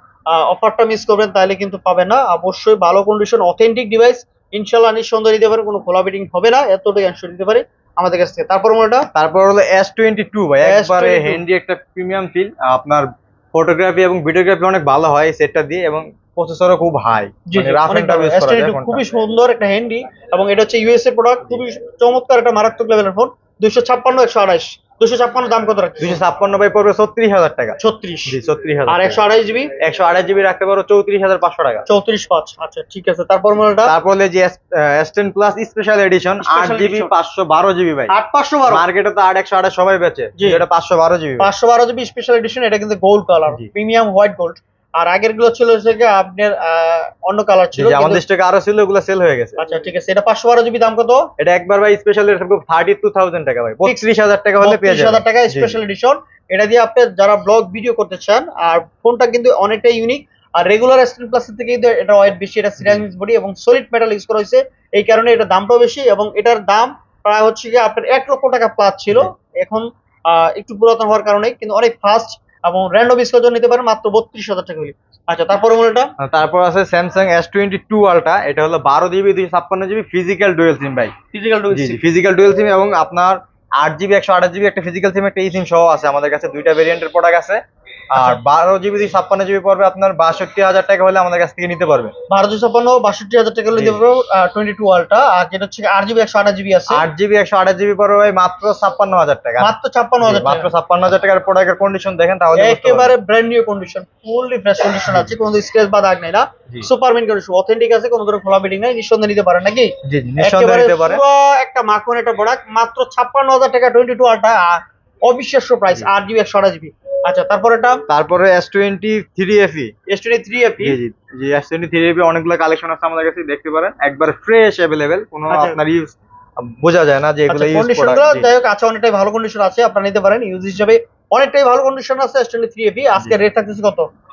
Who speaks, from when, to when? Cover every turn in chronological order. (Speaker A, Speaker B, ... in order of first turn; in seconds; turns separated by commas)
Speaker A: 0.3-9.1, Speaker B: 9.1-19.0, Speaker A: 10.6-11.4, Speaker A: 17.5-26.2, Speaker B: 26.0-29.2, Speaker A: 27.8-29.7, Speaker B: 29.8-31.8, Speaker A: 31.9-33.9, Speaker B: 33.8-38.1, Speaker A: 36.4-37.1, Speaker A: 38.1-38.9, Speaker B: 38.6-41.5, Speaker A: 40.4-40.6, Speaker A: 41.4-48.2, Speaker B: 47.7-49.6, Speaker A: 49.6-51.3, Speaker B: 51.4-55.8, Speaker A: 54.6-76.1, Speaker B: 76.2-81.1, Speaker A: 81.3-82.0, Speaker B: 81.7-87.6, Speaker B: 88.1-92.1, Speaker A: 88.1-88.4, Speaker A: 92.3-97.0, Speaker B: 93.7-94.0, Speaker B: 96.9-103.1, Speaker A: 99.6-100.7, Speaker A: 102.5-118.0, Speaker B: 110.0-111.2, Speaker B: 118.1-119.9, Speaker A: 120.1-121.0, Speaker B: 120.8-128.5, Speaker A: 125.5-125.8, Speaker A: 127.5-134.1